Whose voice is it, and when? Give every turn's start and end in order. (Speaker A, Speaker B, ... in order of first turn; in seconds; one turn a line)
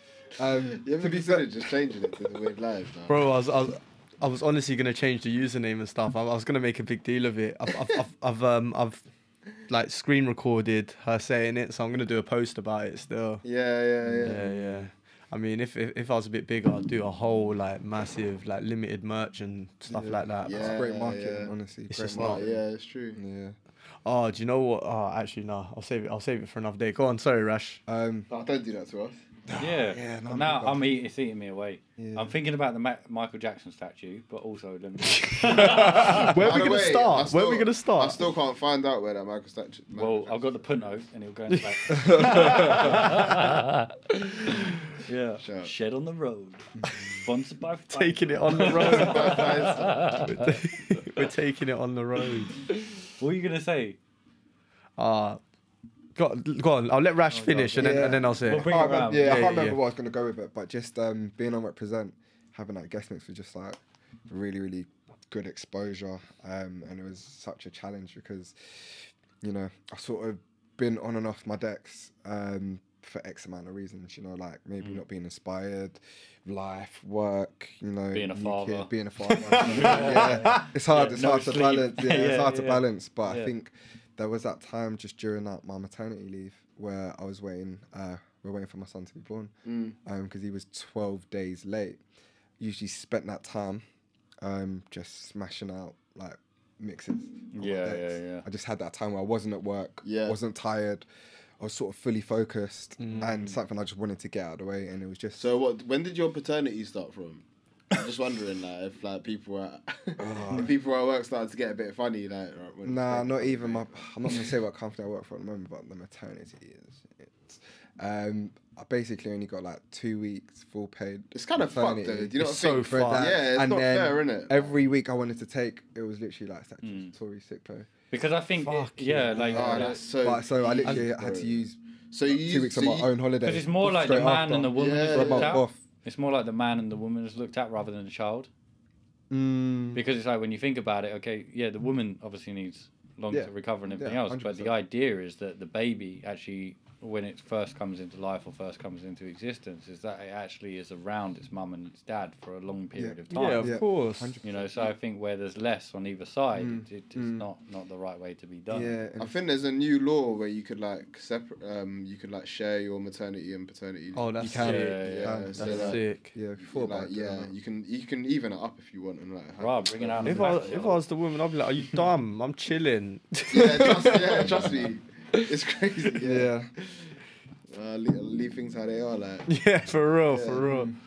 Speaker A: 0.4-1.5
Speaker B: 0.7-3.3
Speaker C: 3.1-9.0
Speaker C: 9.6-13.4
Speaker B: 13.4-14.8
Speaker A: 14.0-14.4
Speaker C: 14.2-20.8
Speaker A: 19.9-22.6
Speaker B: 20.4-21.5
Speaker C: 21.9-22.4
Speaker B: 22.1-23.2
Speaker A: 23.1-23.6
Speaker C: 24.1-27.8
Speaker A: 27.9-28.3
Speaker B: 28.3-29.2
Speaker A: 29.5-30.9
Speaker D: 29.6-36.3
Speaker A: 32.0-32.4
Speaker C: 35.2-38.2
Speaker B: 35.7-40.7
Speaker D: 40.0-43.8
Speaker C: 41.5-43.6
Speaker A: 41.9-43.0
Speaker C: 44.3-44.8
Speaker D: 45.0-46.7
Speaker B: 45.4-45.7
Speaker A: 46.8-47.1
Speaker D: 47.2-51.3
Speaker C: 47.9-53.0
Speaker B: 48.6-50.1
Speaker D: 53.2-54.0
Speaker C: 55.0-55.4
Speaker C: 56.2-59.8
Speaker D: 57.3-59.6
Speaker A: 57.8-89.5
Speaker D: 78.1-78.9
Speaker C: 79.3-80.7
Speaker D: 79.7-83.5
Speaker B: 89.7-90.0
Speaker A: 90.0-92.0
Speaker A: 92.6-93.8
Speaker A: 94.4-101.1
Speaker D: 97.5-98.4
Speaker B: 100.0-100.4
Speaker A: 101.6-105.5
Speaker C: 103.0-103.4
Speaker D: 103.1-103.3
Speaker B: 105.4-114.0
Speaker A: 110.2-110.7
Speaker A: 112.8-127.9
Speaker B: 121.3-124.8
Speaker C: 122.4-123.4
Speaker D: 126.8-127.1
Speaker D: 128.1-130.0
Speaker A: 128.7-135.8
Speaker B: 129.5-133.1
Speaker D: 133.4-138.5
Speaker B: 134.8-135.6
Speaker A: 139.3-140.0
Speaker D: 139.9-153.8
Speaker A: 143.3-144.8
Speaker A: 152.9-154.7
Speaker C: 153.3-154.4
Speaker D: 154.4-158.9
Speaker A: 156.6-157.5
Speaker A: 158.7-159.3
Speaker B: 159.2-164.3
Speaker C: 164.1-165.1
Speaker A: 164.4-167.6
Speaker D: 164.5-165.7
Speaker B: 164.9-166.0
Speaker C: 165.6-166.3
Speaker B: 166.6-170.7
Speaker D: 169.6-171.0
Speaker C: 170.2-174.8
Speaker B: 173.5-177.1
Speaker A: 173.6-174.7
Speaker A: 176.2-176.7
Speaker B: 177.7-179.5
Speaker C: 179.5-180.9
Speaker B: 180.3-180.6
Speaker A: 180.5-181.0